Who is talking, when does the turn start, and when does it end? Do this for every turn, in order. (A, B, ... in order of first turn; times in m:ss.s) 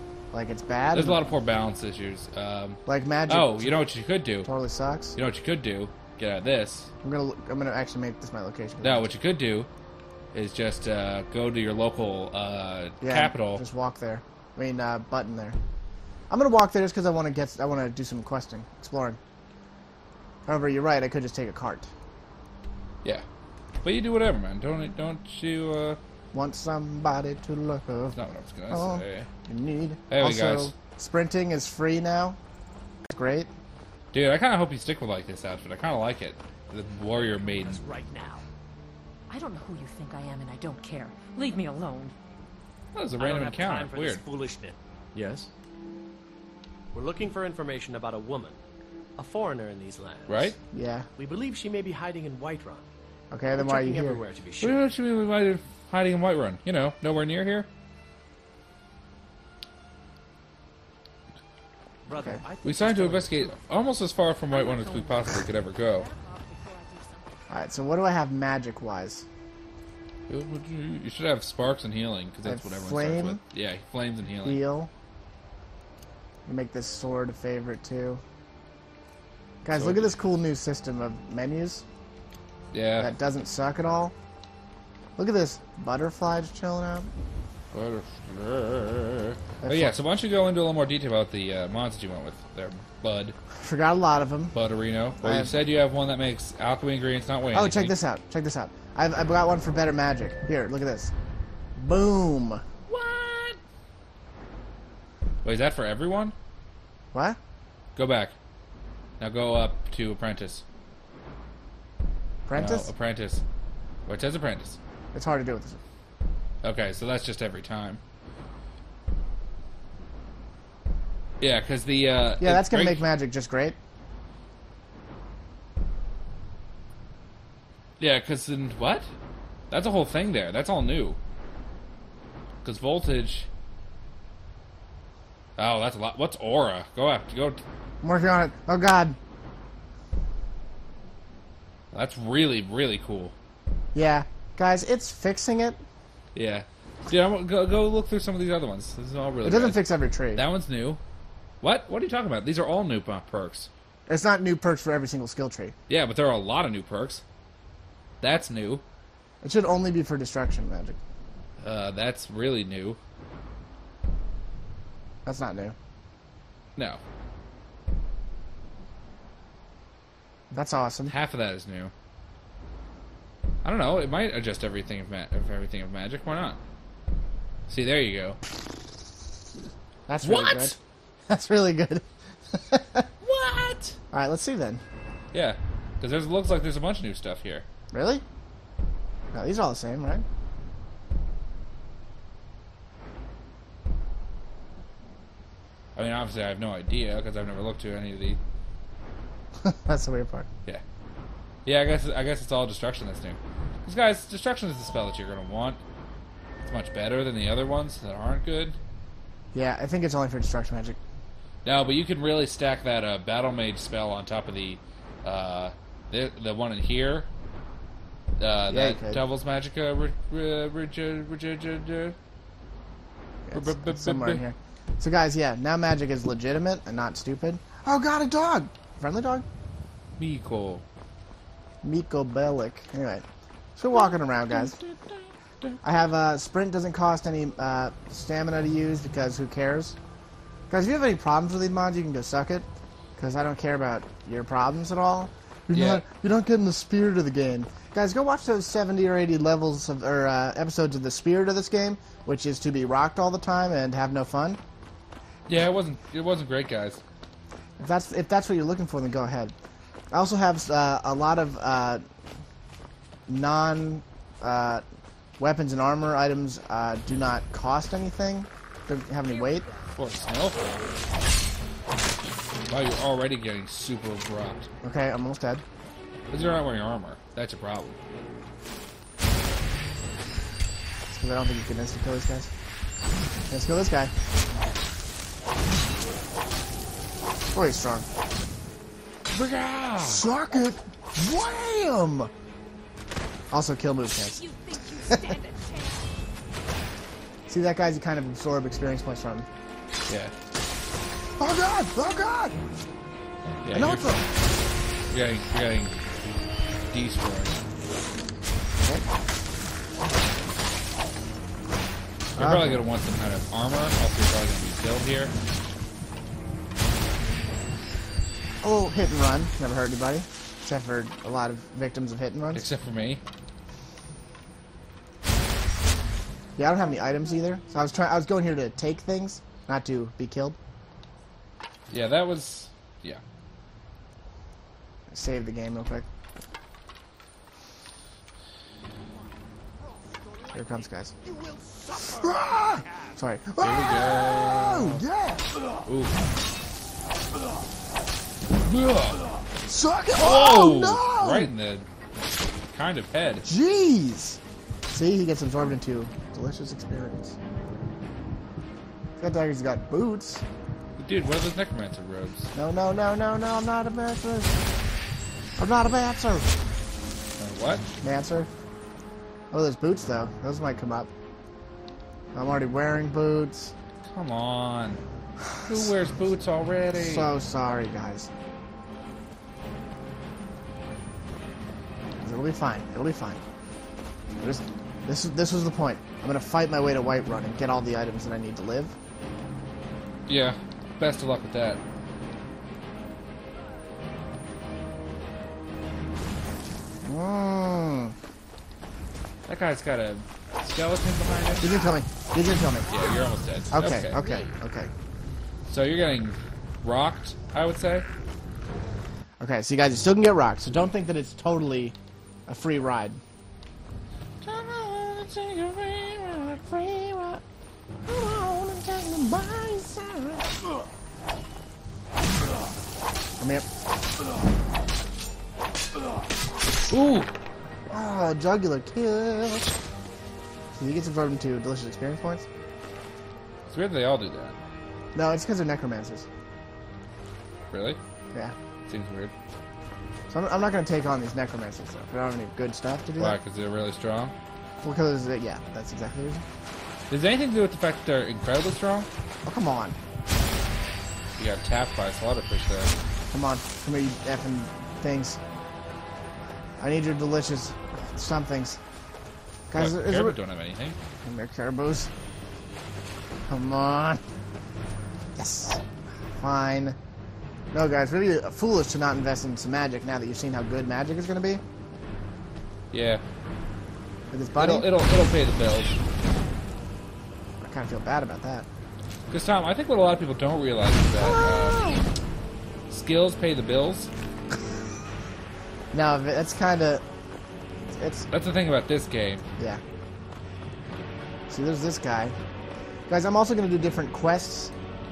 0:00.3-0:01.3 A
0:00.9-0:04.5 B
0:02.9-0:03.8 A
0:04.4-0:05.2 A
0:05.2-0:06.9 B
0:07.0-0:09.1 A
0:08.8-0:09.7 B
0:10.3-0:13.6 B
0:13.0-0:15.6 A
0:16.3-0:19.2 A
0:20.5-0:21.9 A
0:23.8-0:26.0 B
0:26.3-0:28.2 A
0:28.1-0:29.3 B
0:28.7-0:32.4 A
0:30.1-0:30.7 B
0:33.1-0:33.5 A
0:34.1-0:37.8 B
0:37.5-0:38.4 C
0:39.3-0:42.2 D
0:42.9-0:44.2 B
0:43.2-0:45.5 C
0:46.9-0:48.6 C
0:49.2-0:50.6 C
0:50.3-0:50.6 B
0:50.7-0:51.1 A
0:51.2-0:52.9 C
0:53.3-0:54.2 A
0:53.6-0:54.8 C
0:54.6-0:57.7 B
1:02.1-1:03.6 C
1:02.2-1:02.4 A
1:02.6-1:06.1 B
1:04.4-1:07.5 D
1:07.5-1:09.3 A
1:10.3-1:14.6 B
1:12.4-1:13.4 A
1:14.4-1:14.9 A
1:16.5-1:18.2 A
1:19.6-1:21.9 A
1:19.7-1:20.1 B
1:22.7-1:23.1 B
1:23.0-1:24.1 A
1:25.2-1:27.1 A
1:27.7-1:33.4 B
1:29.6-1:30.0 A
1:33.6-1:34.6 A
1:34.5-1:38.0 B
1:35.2-1:35.6 A
1:37.5-1:41.1 A
1:41.8-1:42.6 A
1:42.9-1:43.6 B
1:45.4-1:46.4 B
1:47.1-1:47.4 A
1:48.0-1:48.4 B
1:49.2-1:50.6 B
1:52.5-1:52.9 A
1:52.5-1:53.4 B
1:54.1-1:54.8 B
1:55.1-1:55.8 A
1:56.6-1:58.0 B
2:01.4-2:03.0 B
2:02.4-2:03.8 A
2:08.0-2:09.1 B
2:09.7-2:11.2 B
2:12.6-2:13.5 B
2:15.6-2:17.6 B
2:18.0-2:19.2 A
2:21.9-2:23.4 B
2:23.9-2:25.8 A
2:26.4-2:31.0 B
2:29.4-2:30.5 A
2:31.6-2:33.7 B
2:34.1-2:35.8 A
2:35.9-2:37.2 B
2:38.2-2:38.8 B
2:39.4-2:41.0 A
2:41.6-2:43.0 B
2:45.3-2:45.8 A
2:46.8-2:47.0 B
2:50.5-2:51.2 A
2:51.1-2:51.9 B
2:53.6-2:56.6 B
2:57.7-2:58.4 B
3:00.1-3:00.8 A
3:00.2-3:00.8 B
3:01.3-3:03.1 A
3:03.2-3:04.0 B
3:04.1-3:04.8 A
3:05.3-3:07.6 B
3:07.9-3:08.2 A
3:09.3-3:10.2 A
3:16.0-3:18.4 B
3:19.6-3:20.5 A
3:21.6-3:25.8 B
3:26.6-3:28.8 B
3:29.5-3:31.0 A
3:31.6-3:37.3 B
3:38.4-3:42.2 B
3:38.7-3:39.2 A
3:43.4-3:49.4 A
3:43.5-3:44.4 B
3:50.2-3:50.8 B
3:51.8-3:53.2 A
3:53.8-3:54.8 A
3:53.9-3:55.8 B
3:55.8-4:00.0 A
4:00.7-4:14.6 A
4:05.7-4:06.0 B
4:15.5-4:17.0 B
4:17.8-4:19.6 A
4:20.1-4:22.0 A
4:23.3-4:24.8 A
4:25.4-4:29.7 A
4:30.0-4:30.8 B
4:32.7-4:34.7 B
4:34.8-4:35.6 A
4:36.3-4:38.0 B
4:41.1-4:42.5 A
4:43.5-4:44.1 A
4:47.5-4:48.1 A
4:49.3-4:50.2 B
4:50.0-4:52.3 A
4:53.5-4:54.5 A
4:54.3-4:56.1 D
4:55.1-4:55.4 A
4:57.5-4:59.5 A
5:00.1-5:00.3 B
5:01.4-5:02.6 A
5:03.6-5:04.1 B
5:03.7-5:04.3 A
5:05.1-5:06.0 B
5:06.9-5:07.6 B
5:12.4-5:15.3 B
5:12.4-5:12.8 A
5:18.6-5:22.6 A
5:22.5-5:23.2 B
5:26.6-5:30.6 A
5:31.9-5:33.2 B
5:35.1-5:36.1 A
5:40.5-5:41.2 A
5:41.9-5:45.5 A
5:43.6-5:45.0 B
5:45.9-5:46.2 B
5:48.6-5:49.3 B
5:49.7-5:51.5 A
5:50.2-5:51.9 B
5:52.7-5:53.5 B
5:53.4-5:54.4 A
5:54.9-5:57.4 A
5:59.2-6:00.4 A
6:01.0-6:02.5 B
6:02.6-6:04.6 A
6:05.6-6:06.5 A
6:07.4-6:07.9 B
6:08.0-6:08.5 A
6:09.5-6:11.1 A
6:12.3-6:13.7 A
6:14.0-6:15.0 B
6:15.4-6:16.0 A
6:15.7-6:17.3 B
6:16.9-6:18.3 A
6:22.2-6:23.4 A
6:24.4-6:29.0 A
6:30.3-6:31.8 B
6:37.0-6:38.2 A
6:39.5-6:41.9 B
6:41.6-6:42.9 A
6:42.9-6:44.5 B
6:43.7-6:44.9 A
6:45.7-6:48.1 B
6:49.4-6:52.0 A
6:52.5-6:53.2 A
6:54.4-6:54.7 A
6:54.8-6:56.0 B
6:56.0-6:57.4 A
6:58.0-7:00.5 A
7:03.4-7:03.7 A
7:06.9-7:07.3 B
7:07.9-7:09.7 A
7:10.7-7:12.5 A
7:13.7-7:14.6 B
7:15.2-7:16.3 A
7:17.7-7:18.0 B
7:18.9-7:19.3 B
7:20.3-7:23.4 A
7:23.2-7:24.4 B
7:24.8-7:26.4 A
7:27.1-7:29.1 B
7:29.4-7:30.0 A
7:31.4-7:32.9 B
7:33.3-7:35.4 A
7:36.8-7:38.8 A
7:39.7-7:40.4 A
7:39.8-7:41.0 B
7:41.2-7:42.1 A
7:43.5-7:44.2 A
7:45.4-7:45.8 A
7:46.4-7:47.0 A
7:47.7-7:51.6 A
7:52.9-7:53.2 B
7:54.3-7:54.9 A
7:54.6-7:56.0 B
7:57.6-7:58.7 A
7:59.3-8:01.8 B
8:01.2-8:02.0 A
8:02.9-8:04.1 B
8:05.9-8:07.0 A
8:07.9-8:08.3 A
8:08.3-8:09.4 B
8:09.6-8:09.8 A
8:11.5-8:12.4 A
8:13.1-8:14.7 A